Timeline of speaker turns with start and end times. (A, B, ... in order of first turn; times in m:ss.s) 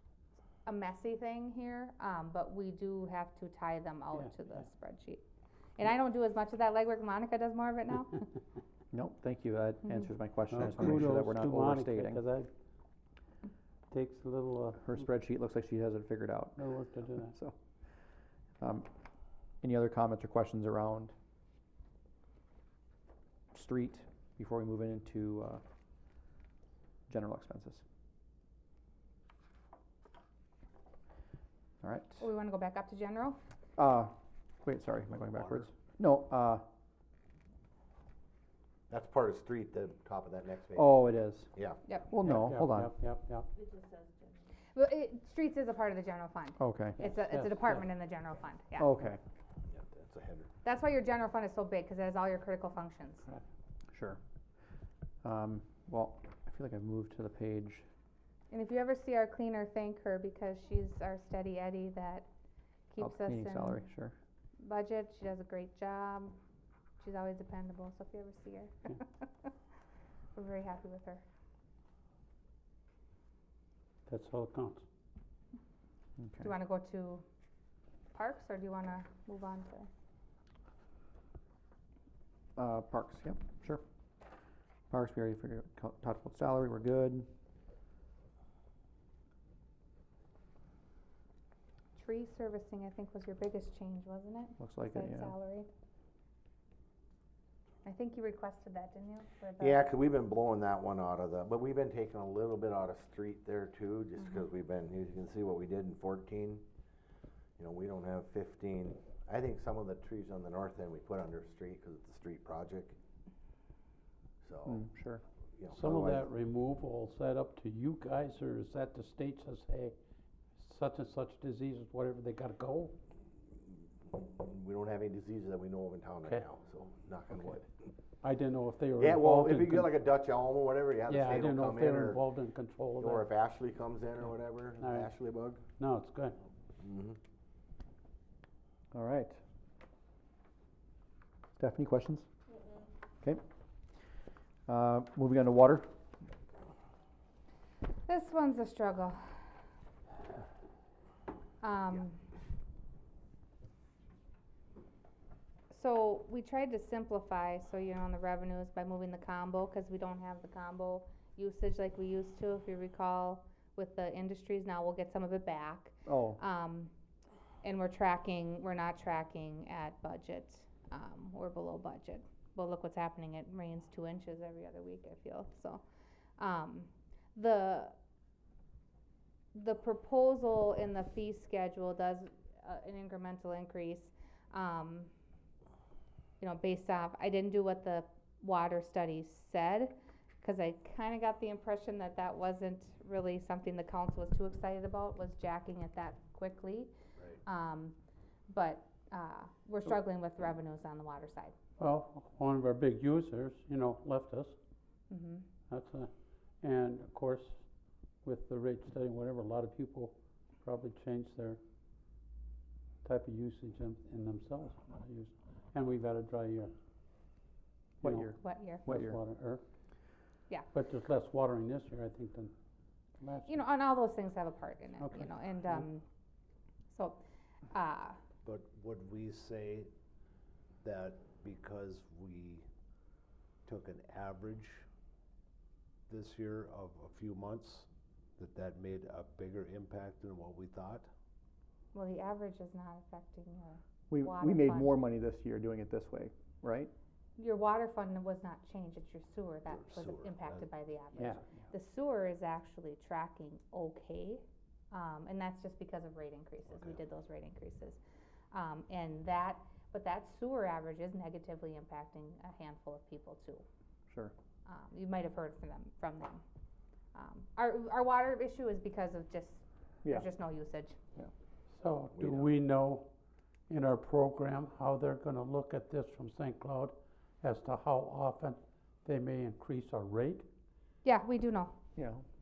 0:00.6-0:05.2 A
0:05.8-0:08.3 A
0:08.9-0:12.2 B
0:10.5-0:12.5 C
0:13.9-0:15.0 C
0:14.8-0:17.6 B
0:16.6-0:17.3 C
0:18.6-0:18.9 B
0:19.6-0:21.1 B
0:23.5-0:25.6 B
0:27.1-0:27.8 B
0:31.8-0:32.3 B
0:32.2-0:33.4 A
0:33.8-0:36.6 B
0:35.3-0:35.6 D
0:38.9-0:41.0 E
0:40.8-0:41.5 B
0:42.1-0:42.9 B
0:42.2-0:43.5 C
0:44.8-0:48.9 A
0:46.6-0:47.1 B
0:47.0-0:47.8 C
0:48.8-0:49.2 B
0:49.7-0:50.5 E
0:50.6-0:53.3 A
0:53.9-0:54.2 B
0:55.2-0:57.8 B
0:58.5-1:02.3 A
1:02.9-1:03.8 A
1:03.0-1:04.2 B
1:04.6-1:06.4 A
1:07.0-1:09.3 A
1:10.4-1:11.2 A
1:14.1-1:14.9 C
1:16.2-1:16.5 B
1:16.4-1:17.2 A
1:18.1-1:19.9 A
1:22.6-1:23.8 B
1:24.9-1:27.3 B
1:32.0-1:35.7 A
1:34.6-1:35.4 B
1:37.8-1:39.9 A
1:39.6-1:46.6 E
1:47.6-1:53.0 E
1:54.4-1:54.8 E
1:54.7-1:55.2 B
1:55.6-1:56.2 E
1:55.7-2:00.0 C
2:00.6-2:03.0 C
2:04.1-2:07.7 E
2:08.2-2:09.9 C
2:09.0-2:12.2 E
2:11.1-2:13.3 C
2:13.0-2:15.6 E
2:14.8-2:15.1 C
2:15.8-2:16.4 C
2:16.8-2:17.2 E
2:18.9-2:19.4 B
2:21.6-2:22.3 B
2:24.7-2:25.9 B
2:28.1-2:29.2 A
2:31.6-2:32.2 A
2:35.7-2:46.9 A
2:46.1-2:46.4 B
2:47.6-2:55.8 A
2:56.4-2:58.0 A
2:59.5-3:05.1 A
3:06.4-3:16.9 A
3:17.4-3:18.0 A
3:18.5-3:21.6 A
3:21.8-3:24.6 C
3:25.1-3:25.5 A
3:25.7-3:27.6 C
3:28.2-3:31.6 C
3:33.0-3:36.7 C
3:38.0-3:39.6 C
3:38.0-3:39.2 B
3:38.4-3:38.8 A
3:40.7-3:42.5 C
3:43.2-3:43.6 C
3:43.5-3:46.0 A
3:45.0-3:45.8 C
3:46.9-3:48.2 A
3:48.4-3:49.9 D
3:50.8-3:52.6 D
3:53.7-3:54.8 D
3:56.1-4:01.1 D
4:01.9-4:05.0 A
4:04.1-4:06.9 B
4:07.4-4:18.0 A
4:09.7-4:10.7 D
4:18.5-4:23.6 A
4:24.7-4:26.4 A
4:27.1-4:31.0 A
4:31.7-4:33.1 C
4:32.1-4:32.5 E
4:33.7-4:40.5 C
4:41.0-4:41.8 A
4:42.0-4:42.2 B